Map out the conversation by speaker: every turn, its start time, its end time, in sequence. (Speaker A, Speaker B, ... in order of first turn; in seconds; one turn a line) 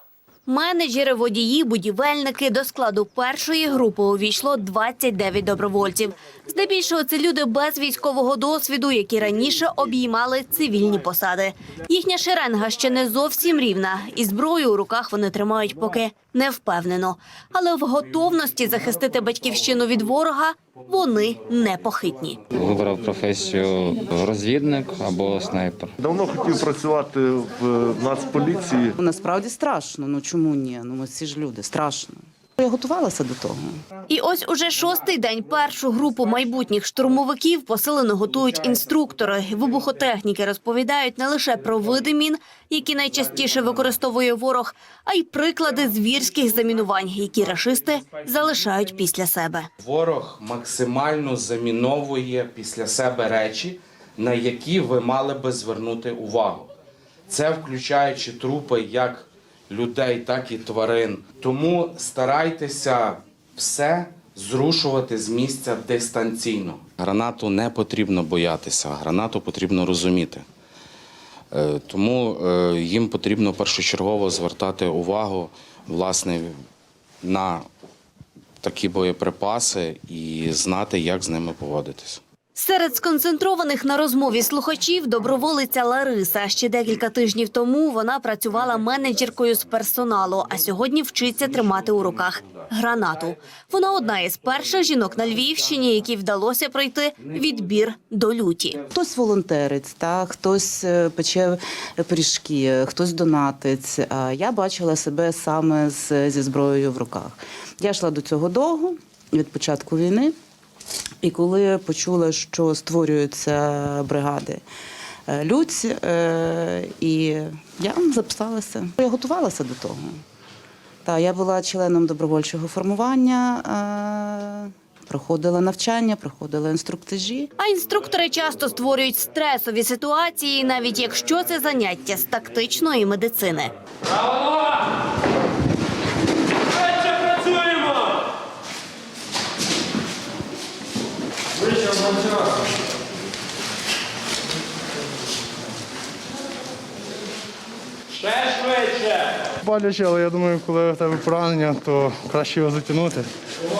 Speaker A: 0.5-22.4
Speaker B: 22.5-25.9
Speaker C: 26.0-28.9
Speaker D: 29.0-33.6
Speaker A: 34.1-49.7
Speaker E: 49.8-56.7
Speaker E: 57.3-70.4
Speaker E: 71.5-76.5
Speaker E: 77.2-77.7
Speaker E: 78.6-82.2
Speaker A: 82.5-98.8
Speaker D: 98.9-110.3
Speaker D: 111.2-114.6
Speaker D: 115.3-120.0
Speaker D: 121.0-127.5
Speaker A: 127.6-133.7
Speaker F: 149.6-153.2